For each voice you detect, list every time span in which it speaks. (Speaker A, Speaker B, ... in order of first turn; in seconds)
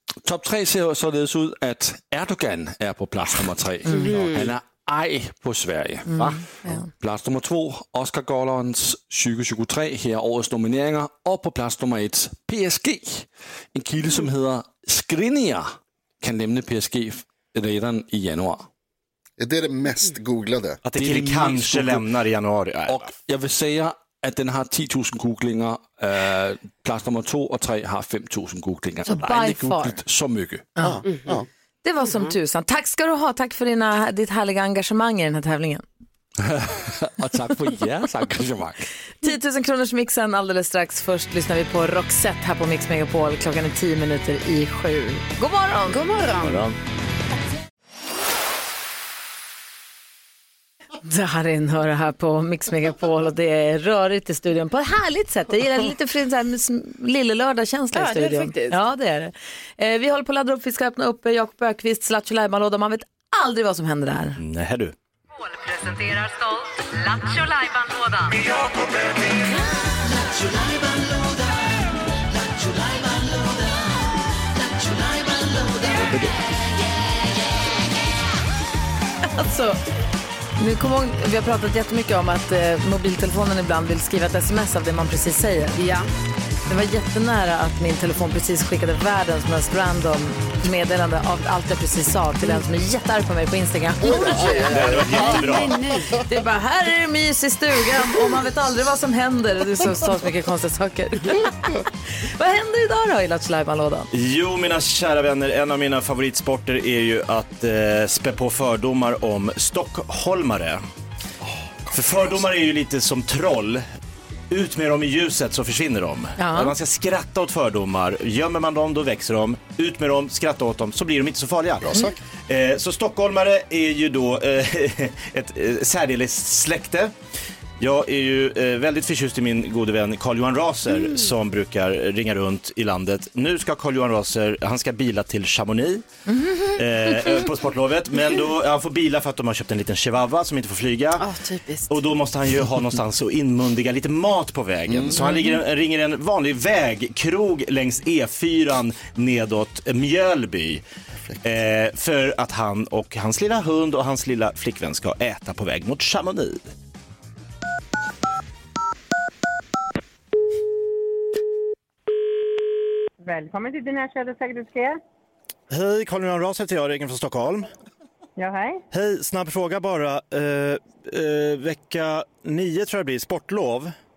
Speaker A: 0.2-18.7, 20.9-22.1, 22.9-30.7, 36.4-38.9
Speaker B: 3.9-4.1, 6.1-6.9, 29.0-30.0, 31.8-35.8, 39.2-46.0, 51.0-64.4, 79.2-79.8, 80.6-85.8, 86.7-95.0, 96.2-104.1, 116.4-116.7, 136.3-136.8, 145.2-145.5
Speaker C: 3.9-4.5, 31.1-31.3, 32.0-32.3, 45.9-46.7, 57.9-58.8, 85.8-86.1, 94.8-96.2, 130.9-131.2, 141.2-142.0
Speaker D: 19.4-20.8, 30.8-31.5, 94.0-96.2, 111.4-112.4, 121.8-122.2, 144.9-145.2
Speaker E: 20.8-23.1, 46.4-46.8, 64.4-64.9, 75.9-76.3, 94.7-95.8, 104.1-110.8, 111.9-113.8, 114.5-127.1, 127.8-136.0, 136.7-141.2, 141.9-150.8, 151.4-156.6, 165.7-167.7, 168.9-173.9
Speaker F: 65.4-68.4
Speaker G: 163.2-165.0, 168.4-168.8